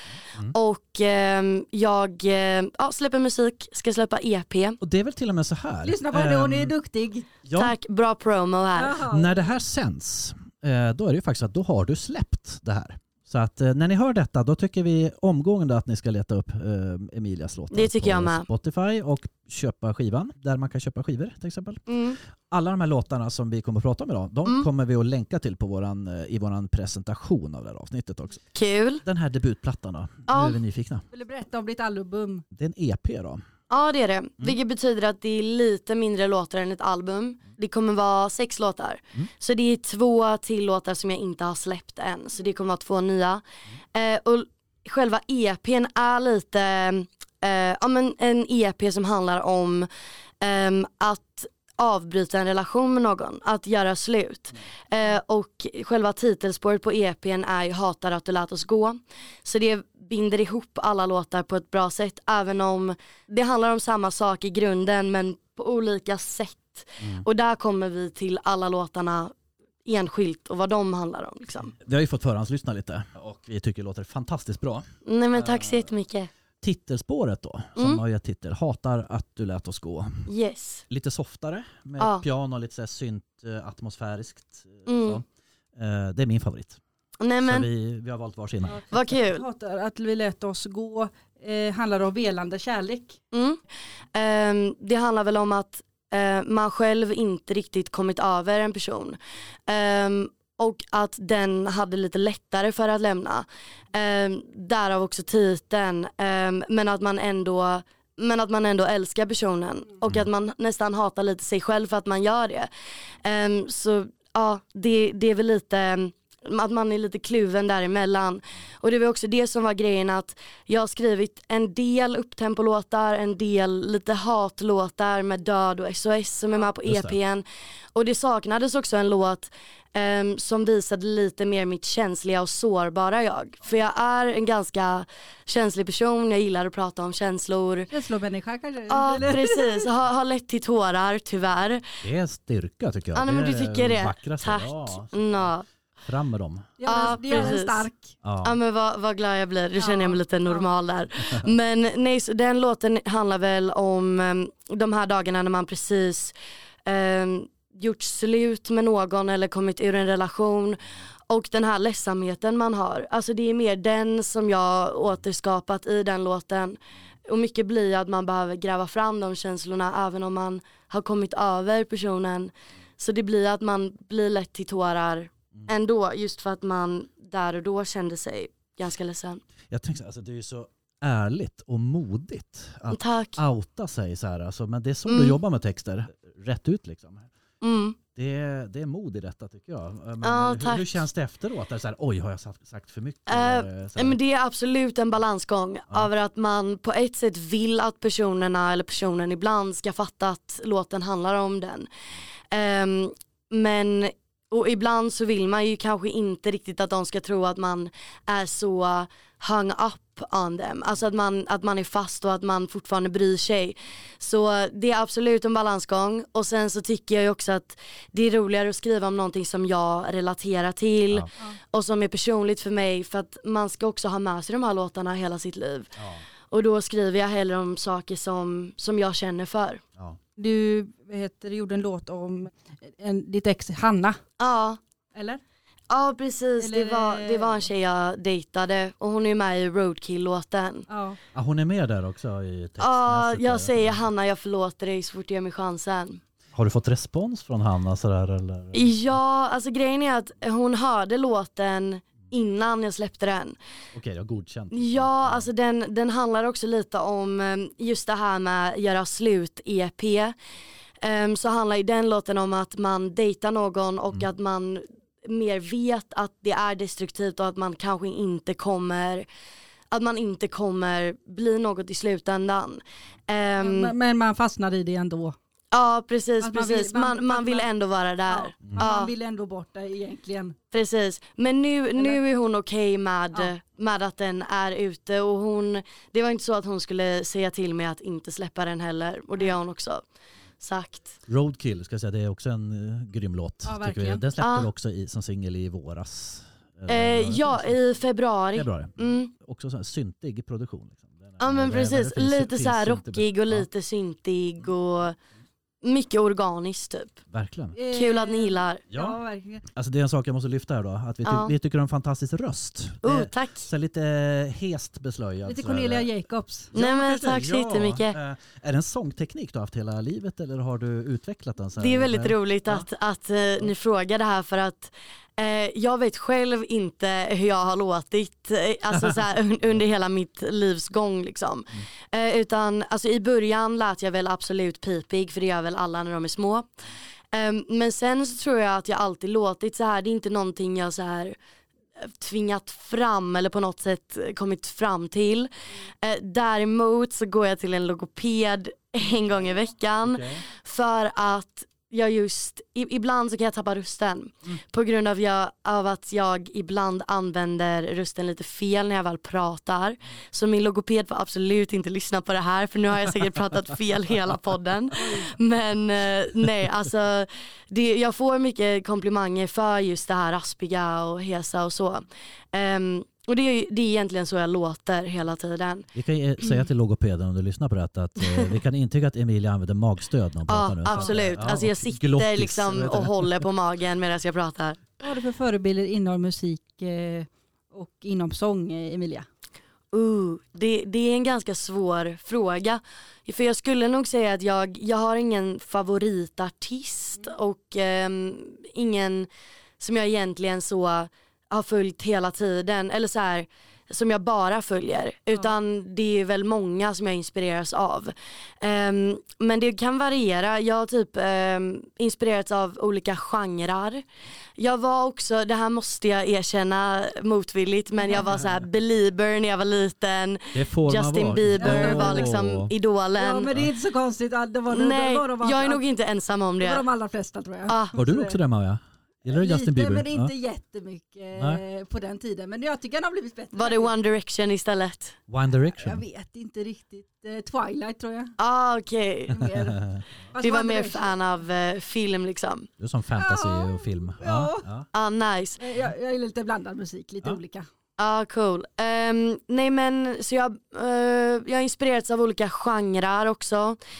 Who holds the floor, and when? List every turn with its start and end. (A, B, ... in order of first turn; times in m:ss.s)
0:00.5-0:04.8 A
0:04.8-0:06.7 B
0:05.8-0:07.3 C
0:07.4-0:07.7 B
0:07.5-0:09.0 A
0:08.7-0:09.5 C
0:09.1-0:21.9 B
0:17.7-0:18.5 A
0:21.9-0:22.2 A
0:22.5-0:28.4 B
0:28.5-0:29.0 A
0:29.0-0:31.0 B
0:30.3-0:30.6 A
0:31.1-0:32.4 C
0:32.5-0:33.4 B
0:33.7-0:43.4 A
0:43.9-0:49.9 A
0:50.4-1:09.3 A
1:09.8-1:11.7 A
1:11.8-1:15.9 B
1:15.0-1:16.3 A
1:16.6-1:20.3 B
1:20.3-1:20.8 A
1:20.9-1:25.2 B
1:22.0-1:22.2 A
1:24.8-1:25.2 A
1:25.8-1:26.8 B
1:27.2-1:27.7 A
1:27.4-1:28.8 B
1:28.7-1:33.2 C
1:28.9-1:29.4 A
1:33.3-1:33.6 A
1:34.1-1:52.7 A
1:53.2-2:17.9 A
2:06.8-2:07.2 B
2:17.9-2:19.9 C
2:18.9-2:21.8 A
2:22.0-2:25.5 B
2:23.1-2:25.6 A
2:26.0-2:27.4 B
2:26.8-2:28.1 C
2:26.8-2:27.9 A
2:28.2-2:28.6 B
2:28.4-2:36.3 A
2:29.8-2:30.6 C
2:36.8-2:59.4 A
2:59.7-3:07.3 B
3:02.9-3:03.4 A
3:05.1-3:05.4 A
3:07.6-3:08.0 A
3:08.1-3:14.2 B
3:10.2-3:11.0 A
3:13.3-3:21.9 A
3:22.5-3:45.9 A
3:46.0-3:46.2 B
3:46.5-3:49.8 A
3:50.4-3:54.2 C
3:54.4-3:54.8 A
3:55.1-3:55.4 C
3:55.9-4:00.8 A
3:56.6-3:57.6 C
4:00.9-4:01.2 C
4:01.3-4:04.0 B
4:02.8-4:06.2 A
4:06.5-4:08.9 B
4:08.7-4:13.6 A
4:13.9-4:15.5 B
4:14.7-4:20.3 A
4:21.0-4:29.2 A
4:29.9-4:33.9 A
4:33.6-4:35.4 C
4:35.7-4:39.1 A
4:36.4-4:37.7 C
4:38.3-4:40.6 C
4:40.7-4:50.0 A
4:50.6-4:51.1 A
4:51.3-4:57.7 B
4:53.6-4:54.2 C
4:54.4-4:54.7 A
4:56.9-4:59.3 A
4:58.5-5:03.7 B
5:01.4-5:05.2 A
5:05.8-5:07.2 A
5:07.3-5:07.8 B
5:07.7-5:09.6 C
5:07.9-5:08.8 A
5:08.9-5:09.2 B
5:09.7-5:16.1 B
5:11.2-5:11.5 A
5:13.0-5:13.7 A
5:15.4-5:16.7 C
5:16.7-5:18.2 A
5:16.7-5:22.8 B
5:21.8-5:36.7 A
5:37.3-5:41.4 A
5:42.0-6:15.8 A
5:50.0-5:50.4 B
6:05.0-6:05.3 C
6:15.9-6:23.4 B
6:18.2-6:18.5 A
6:20.5-6:24.9 A
6:20.9-6:21.2 C
6:25.0-6:29.2 C
6:29.9-6:54.0 A
6:54.6-7:03.5 A
7:00.5-7:02.7 B
7:01.6-7:02.4 C
7:03.2-7:05.8 C
7:04.7-7:06.8 A
7:06.6-7:08.4 C
7:07.7-7:07.9 A
7:07.9-7:10.3 B
7:09.3-7:13.9 C
7:11.4-7:11.6 B
7:13.5-7:15.2 A
7:15.3-7:16.0 B
7:15.8-7:18.3 C
7:18.4-7:19.5 A
7:19.3-7:21.1 C
7:19.4-7:20.0 B
7:20.4-7:22.7 A
7:22.8-7:24.9 B
7:23.2-7:24.7 C
7:24.9-7:25.6 A
7:25.6-7:27.7 C
7:28.0-7:33.8 A